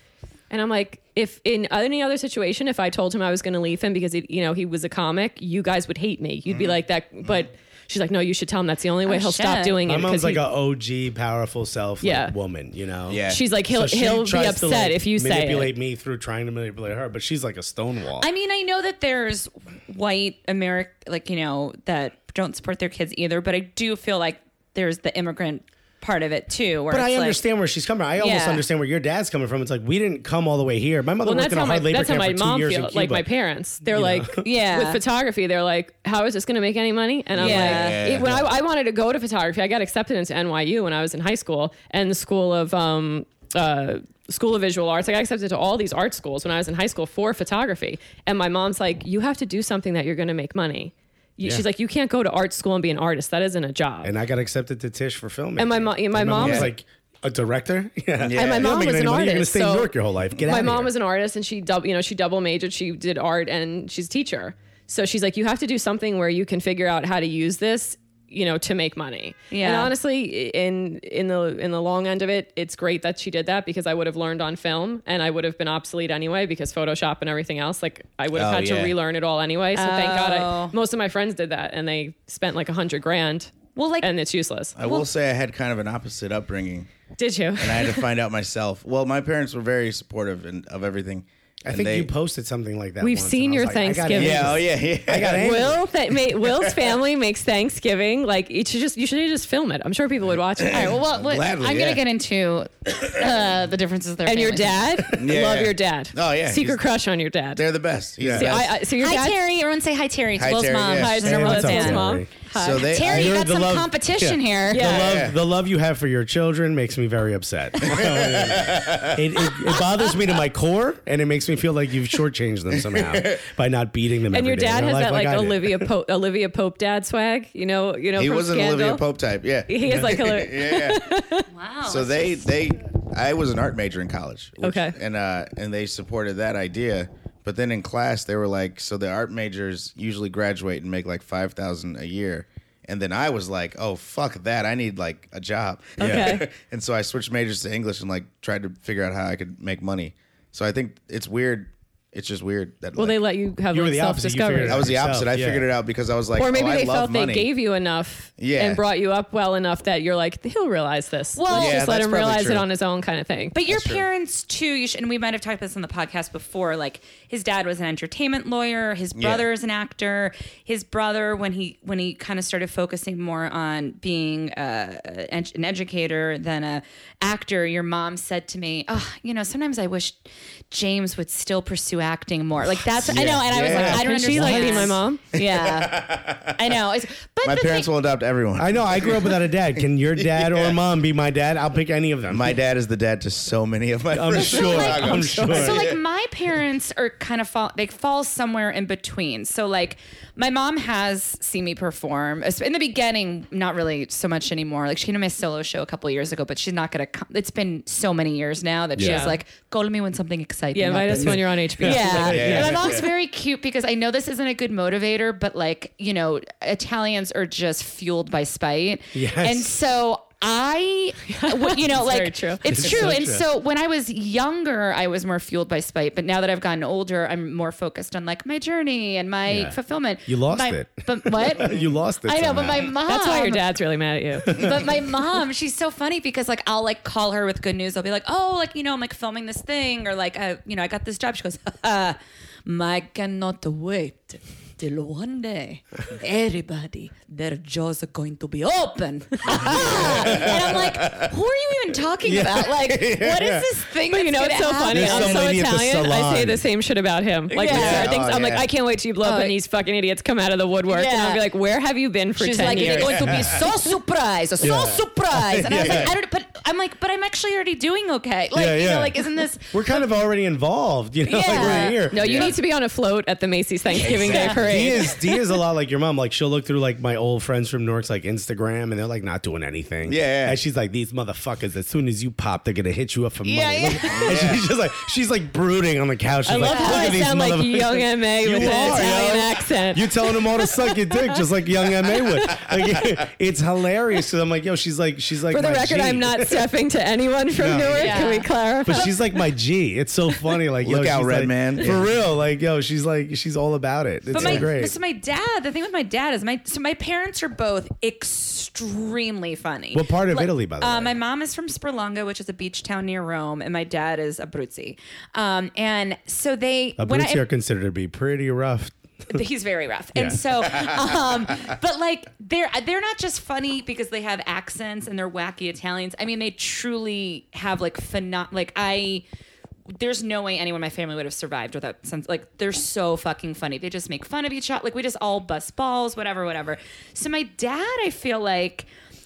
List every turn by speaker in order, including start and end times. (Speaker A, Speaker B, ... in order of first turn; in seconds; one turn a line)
Speaker A: 0.5-10.4
Speaker B: 6.5-6.7
Speaker C: 9.1-9.8
Speaker D: 9.8-18.3
Speaker A: 12.0-12.3
Speaker B: 13.1-13.4
Speaker A: 13.2-15.7
Speaker C: 18.2-27.4
Speaker D: 26.9-33.3
Speaker C: 28.2-28.6
Speaker A: 31.2-54.1
Speaker D: 33.8-34.5
Speaker C: 34.4-35.0
Speaker B: 37.4-38.4
Speaker C: 37.4-38.2
Speaker D: 54.0-60.9
Speaker A: 55.6-56.7
Speaker B: 56.4-56.7
Speaker B: 58.2-58.8
Speaker A: 58.3-59.9
Speaker A: 60.4-84.8
Speaker C: 69.5-69.9
Speaker B: 78.3-78.9
Speaker C: 79.7-80.8
Speaker C: 83.7-84.1
Speaker B: 84.8-86.9
Speaker C: 84.8-85.1
Speaker A: 87.2-88.0
Speaker B: 87.6-92.1
Speaker D: 91.7-95.8
Speaker A: 93.0-94.6
Speaker B: 94.1-95.6
Speaker A: 95.3-100.9
Speaker B: 96.5-96.8
Speaker B: 100.6-102.0
Speaker C: 100.7-104.9
Speaker A: 104.2-107.6
Speaker B: 105.1-106.8
Speaker B: 107.5-108.8
Speaker D: 108.2-108.5
Speaker A: 108.3-109.3
Speaker C: 109.0-112.2
Speaker B: 110.4-111.3
Speaker A: 110.9-112.9
Speaker D: 111.2-112.3
Speaker B: 112.5-113.4
Speaker C: 112.7-114.9
Speaker D: 113.0-125.9
Speaker A: 114.7-115.2
Speaker B: 114.8-115.3
Speaker B: 117.8-119.2
Speaker C: 119.7-120.1
Speaker B: 122.9-123.4
Speaker A: 124.3-129.0
Speaker B: 128.2-131.0
Speaker A: 129.7-131.5
Speaker C: 131.5-132.4
Speaker B: 131.8-153.2
Speaker A: 134.6-134.9
Speaker A: 146.0-146.5
Speaker D: 146.0-146.4
Speaker A: 152.9-154.9
Speaker D: 153.7-155.7
Speaker B: 154.6-157.5
Speaker A: 156.3-163.6
Speaker B: 158.4-158.8
Speaker C: 161.3-161.8
Speaker B: 161.5-162.7
Speaker C: 163.5-187.9
Speaker D: 163.7-164.0
Speaker B: 169.1-169.5
Speaker B: 182.8-186.8
Speaker A: 183.6-185.2
Speaker D: 184.3-184.7
Speaker B: 187.4-189.5
Speaker D: 188.6-192.6
Speaker B: 190.2-190.8
Speaker B: 192.3-196.0
Speaker D: 194.1-195.9
Speaker A: 194.5-195.7
Speaker C: 194.6-233.6
Speaker A: 209.0-209.4
Speaker A: 210.7-213.0
Speaker D: 211.0-212.8
Speaker B: 212.2-213.1
Speaker D: 219.1-219.7
Speaker A: 221.3-223.1
Speaker D: 222.6-223.4
Speaker D: 229.5-232.9
Speaker A: 233.0-234.6
Speaker C: 234.5-255.5
Speaker B: 249.6-251.3
Speaker D: 249.7-250.6
Speaker D: 252.2-253.6
Speaker B: 252.3-253.6
Speaker A: 254.1-263.3
Speaker D: 254.9-256.6
Speaker C: 257.5-258.2
Speaker B: 257.7-258.7
Speaker C: 259.2-259.5
Speaker C: 260.9-261.4
Speaker C: 262.4-270.0
Speaker B: 262.8-263.6
Speaker D: 263.2-263.6
Speaker D: 264.6-266.1
Speaker B: 265.6-266.1
Speaker D: 268.5-269.2
Speaker D: 269.7-272.4
Speaker C: 271.2-272.6
Speaker A: 271.5-275.1
Speaker B: 272.2-272.5
Speaker C: 274.0-275.4
Speaker B: 274.0-274.7
Speaker D: 274.5-296.6
Speaker B: 280.1-280.6
Speaker C: 283.4-284.6
Speaker B: 284.1-284.6
Speaker A: 286.4-291.4
Speaker C: 286.6-287.1
Speaker B: 288.5-289.5
Speaker B: 292.4-293.1
Speaker A: 295.5-299.2
Speaker D: 297.6-298.2
Speaker C: 297.9-299.0
Speaker D: 298.8-304.9
Speaker B: 300.8-302.1
Speaker C: 304.3-317.4
Speaker B: 304.3-304.6
Speaker D: 309.9-311.1
Speaker D: 317.0-319.4
Speaker C: 319.3-329.2
Speaker D: 320.1-320.4
Speaker C: 329.9-338.9